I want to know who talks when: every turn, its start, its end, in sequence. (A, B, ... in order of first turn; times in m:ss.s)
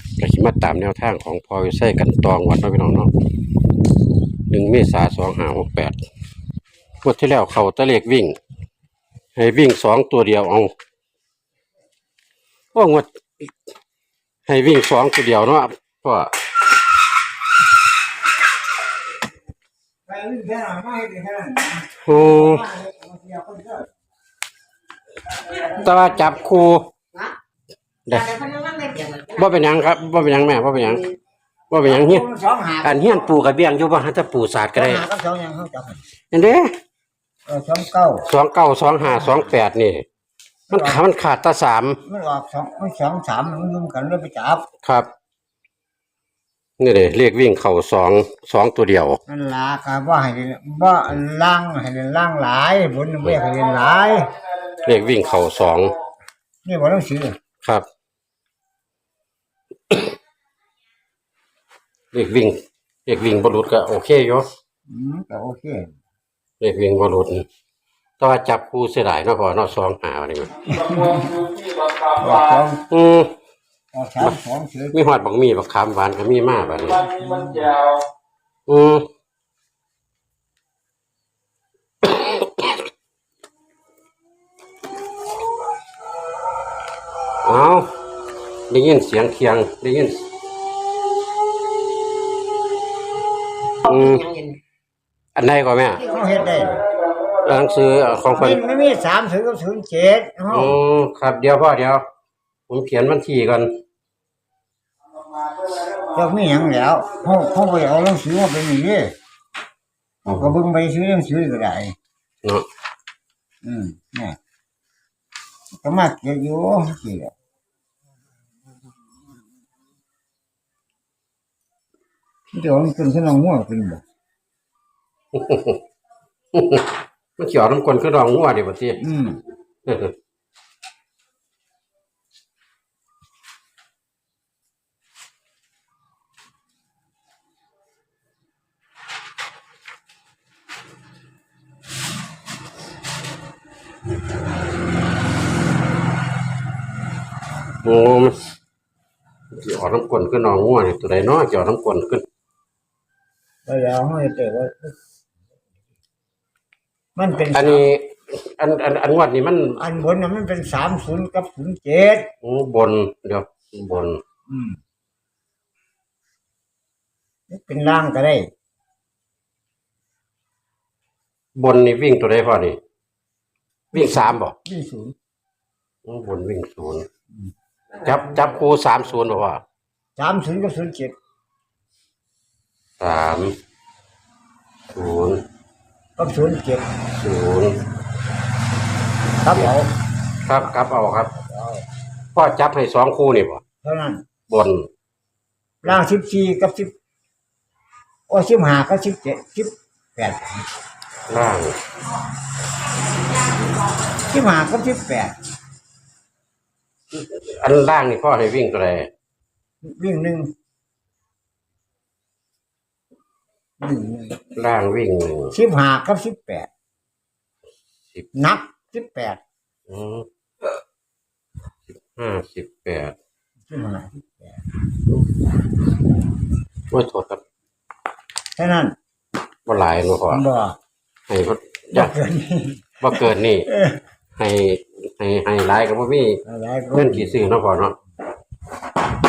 0:00.2-0:03.1 A
0:04.5-0:06.0 A
0:07.0-0:08.4 A
0:09.4-0:10.7 A
0:12.7-0:13.5 A
0:14.5-0:16.3 A
0:20.1-0:23.9 B
0:22.0-0:22.6 A
0:25.5-0:26.9 A
0:28.1-0:28.3 A
0:28.1-0:29.4 C
0:29.3-0:31.1 A
0:31.7-0:32.2 A
0:31.8-0:33.3 B
0:32.8-0:35.0 A
0:34.7-0:36.0 B
0:36.3-0:36.7 A
0:37.4-0:38.2 B
0:38.2-0:40.0 A
0:39.0-0:39.5 B
0:40.7-0:41.0 B
0:40.7-0:42.0 A
0:42.0-0:44.6 B
0:44.8-0:45.1 A
0:46.8-0:49.2 A
0:49.3-0:54.4 B
0:54.7-0:56.0 A
0:56.6-0:57.3 B
1:02.1-1:04.5 A
1:04.9-1:05.9 B
1:06.6-1:07.4 A
1:08.2-1:10.7 A
1:10.7-1:11.5 B
1:12.2-1:12.8 B
1:12.9-1:13.3 A
1:13.9-1:15.0 B
1:14.9-1:17.1 A
1:17.1-1:17.8 B
1:18.7-1:19.1 A
1:22.0-1:22.8 A
1:27.4-1:27.9 A
1:28.7-1:30.2 A
1:33.8-1:34.4 A
1:33.9-1:34.6 C
1:35.4-1:36.0 A
1:36.0-1:36.8 B
1:37.3-1:38.6 A
1:38.4-1:40.8 B
1:40.5-1:42.0 A
1:42.7-1:43.8 A
1:46.1-1:49.1 B
1:50.2-1:51.9 B
1:53.6-1:54.4 B
1:55.8-1:57.3 B
2:02.5-2:04.0 B
2:05.3-2:05.8 A
2:06.5-2:09.0 A
2:09.0-2:09.4 B
2:09.8-2:10.1 A
2:27.8-2:28.4 A
2:29.5-2:32.2 A
2:33.6-2:35.0 B
2:37.1-2:37.8 B
2:37.5-2:39.8 A
2:39.8-2:42.3 B
2:42.4-2:44.2 A
2:44.5-2:44.8 B
2:47.5-2:48.5 B
2:51.6-2:52.8 A
2:53.9-2:54.5 A
2:53.9-2:55.1 B
2:56.0-2:57.0 A
2:57.9-2:59.6 A
3:00.2-3:01.1 B
3:03.0-3:03.5 A
3:04.9-3:05.4 A
3:06.2-3:06.8 B
3:07.1-3:07.8 A
3:09.4-3:09.9 B
3:10.4-3:11.3 A
3:11.3-3:11.8 B
3:12.3-3:13.6 A
3:13.8-3:14.2 B
3:14.5-3:14.9 A
3:15.8-3:16.9 B
3:18.3-3:20.6 B
3:21.3-3:21.8 A
3:24.2-3:25.3 B
3:27.1-3:29.1 A
3:29.8-3:30.5 B
3:33.8-3:34.4 B
3:34.5-3:35.6 A
3:35.5-3:36.7 B
3:38.3-3:39.4 B
3:39.9-3:40.2 A
3:41.9-3:43.2 A
3:43.7-3:44.6 B
3:46.9-3:47.4 A
3:48.6-3:48.9 B
3:49.6-3:50.4 A
3:50.3-3:50.8 B
3:51.3-3:52.1 A
3:51.9-3:54.0 B
3:53.0-3:53.7 A
3:54.4-3:56.4 A
3:56.4-3:57.4 B
3:56.9-3:58.0 A